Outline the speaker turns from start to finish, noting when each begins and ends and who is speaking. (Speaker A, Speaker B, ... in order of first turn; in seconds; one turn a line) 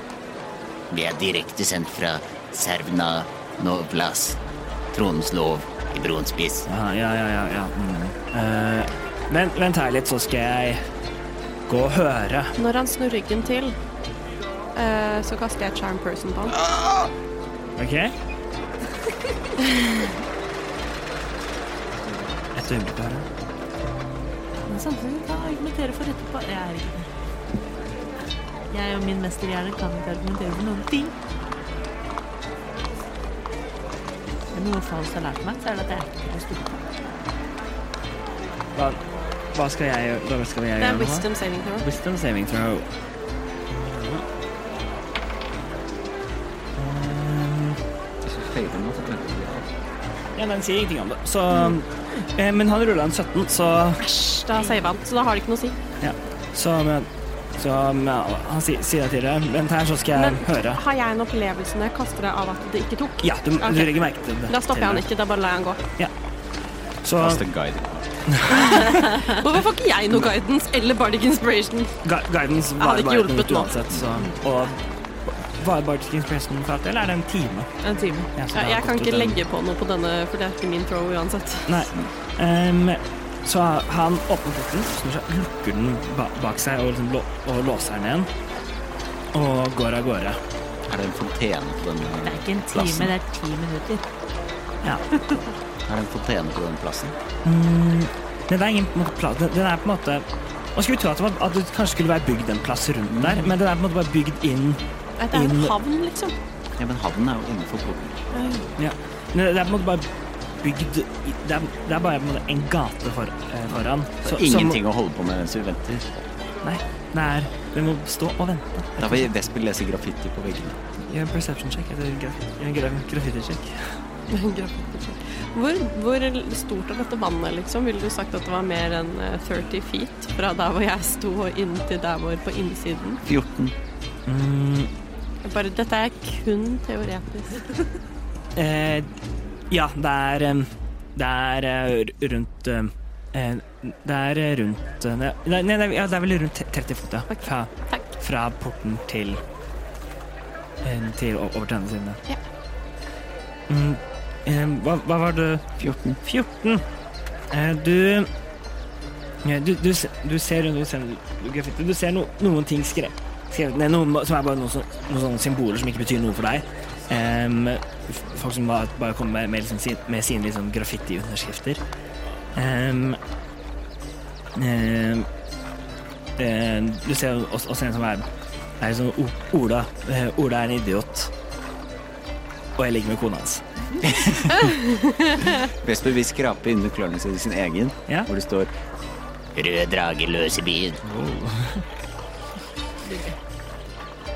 Speaker A: 0.9-4.4
Speaker A: 4.9-6.7
Speaker B: 6.7-10.8
Speaker B: 11.7-12.6
Speaker C: 12.6-13.8
Speaker C: 14.8-16.6
Speaker B: 17.8-18.1
Speaker B: 22.5-23.3
Speaker D: 24.7-27.1
Speaker D: 28.7-31.1
Speaker D: 34.5-36.9
Speaker B: 38.8-39.0
Speaker B: 39.5-41.3
Speaker C: 40.8-41.9
Speaker B: 41.8-42.9
Speaker B: 43.7-44.2
Speaker B: 46.8-47.8
Speaker E: 48.2-49.7
Speaker B: 50.4-54.0
Speaker C: 54.0-55.8
Speaker B: 56.0-60.8
Speaker C: 60.1-65.8
Speaker B: 63.2-65.0
Speaker B: 67.0-67.5
Speaker E: 67.2-68.5
Speaker B: 68.3-68.9
Speaker C: 68.5-72.0
Speaker B: 72.0-77.7
Speaker C: 72.8-74.3
Speaker D: 77.8-78.3
Speaker B: 78.3-79.4
Speaker C: 78.5-81.9
Speaker B: 81.7-88.3
Speaker B: 89.3-90.4
Speaker E: 90.9-93.1
Speaker D: 92.2-94.0
Speaker E: 95.9-97.2
Speaker B: 97.5-105.8
Speaker E: 103.1-103.5
Speaker C: 105.2-106.3
Speaker E: 106.8-108.2
Speaker C: 108.3-108.7
Speaker B: 108.8-110.1
Speaker B: 110.6-114.8
Speaker E: 114.3-116.2
Speaker B: 116.6-119.3
Speaker E: 119.0-120.8
Speaker B: 121.1-124.0
Speaker C: 124.3-133.2
Speaker E: 133.2-133.7
Speaker B: 134.3-134.9
Speaker C: 135.4-137.7
Speaker B: 138.6-139.1
Speaker B: 139.7-149.4
Speaker C: 147.3-148.1
Speaker B: 150.8-152.2
Speaker B: 153.7-156.8
Speaker E: 155.8-156.2
Speaker B: 157.5-158.3
Speaker B: 159.4-171.8
Speaker B: 172.6-173.2
Speaker B: 174.6-175.3
Speaker B: 176.4-178.3
Speaker B: 178.8-181.3
Speaker B: 182.8-183.6
Speaker C: 184.6-185.5
Speaker E: 185.8-188.7
Speaker A: 189.6-191.0
Speaker B: 191.0-191.8